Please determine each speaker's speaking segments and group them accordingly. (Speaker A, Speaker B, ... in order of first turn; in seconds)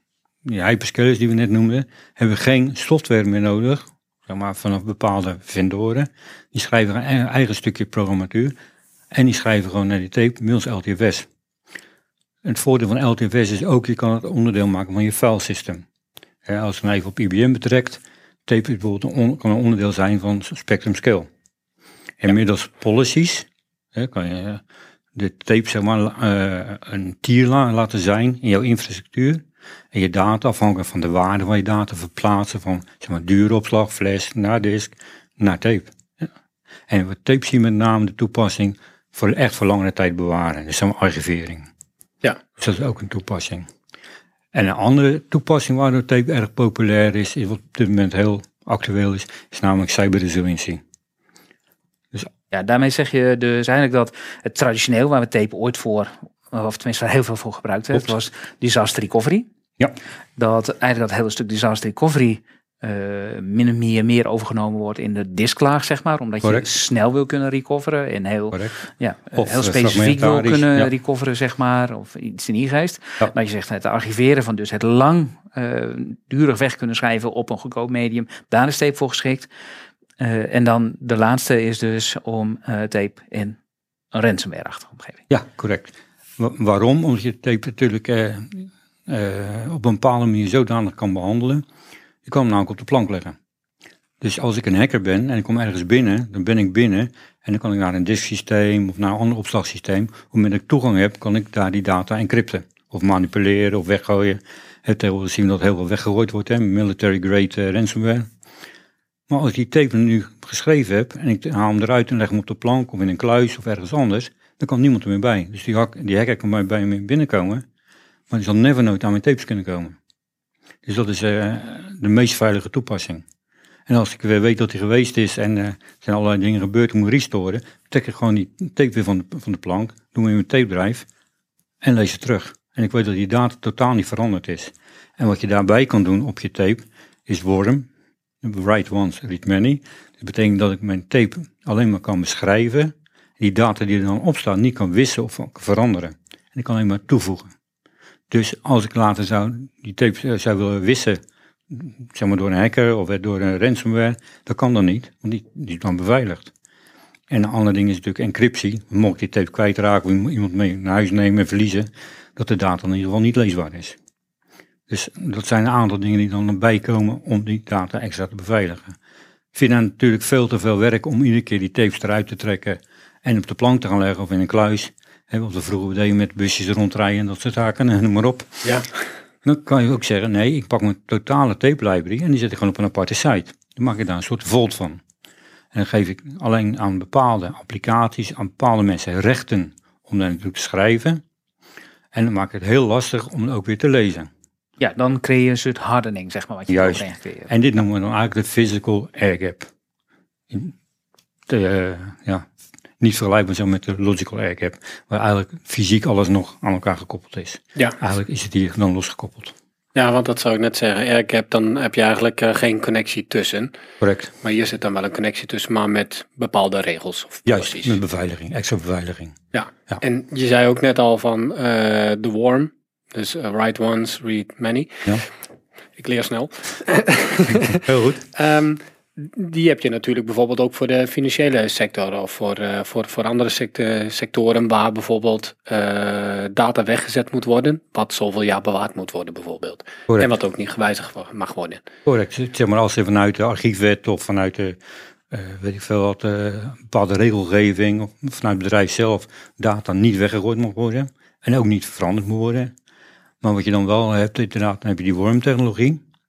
Speaker A: 0.4-8.6, 9.1-11.3, 12.4-15.8, 16.5-21.3, 22.2-24.6, 25.1-36.3, 36.9-41.7, 42.6-43.7, 44.5-50.8, 68.5-70.9, 85.3-91.6, 92.2-93.4, 94.2-108.3, 109.3-117.7, 118.3-120.0, 120.9-123.2, 123.9-131.1, 131.8-137.9, 138.4-147.5, 148.3-156.5, 157.3-164.0, 164.9-169.0, 169.5-178.7, 179.4-185.0, 185.7-191.2, 192.1-194.3, 196.7-199.7, 201.5-202.5, 203.0-209.6, 214.0-214.3, 217.5-219.4, 227.5-228.2, 242.1-244.8, 245.3-252.7, 253.4-256.0
Speaker B: 52.5-59.5, 60.4-79.5, 80.2-83.6, 84.1-85.2, 194.8-197.5
Speaker C: 209.9-213.7, 214.4-218.0, 219.5-225.2, 226.0-241.8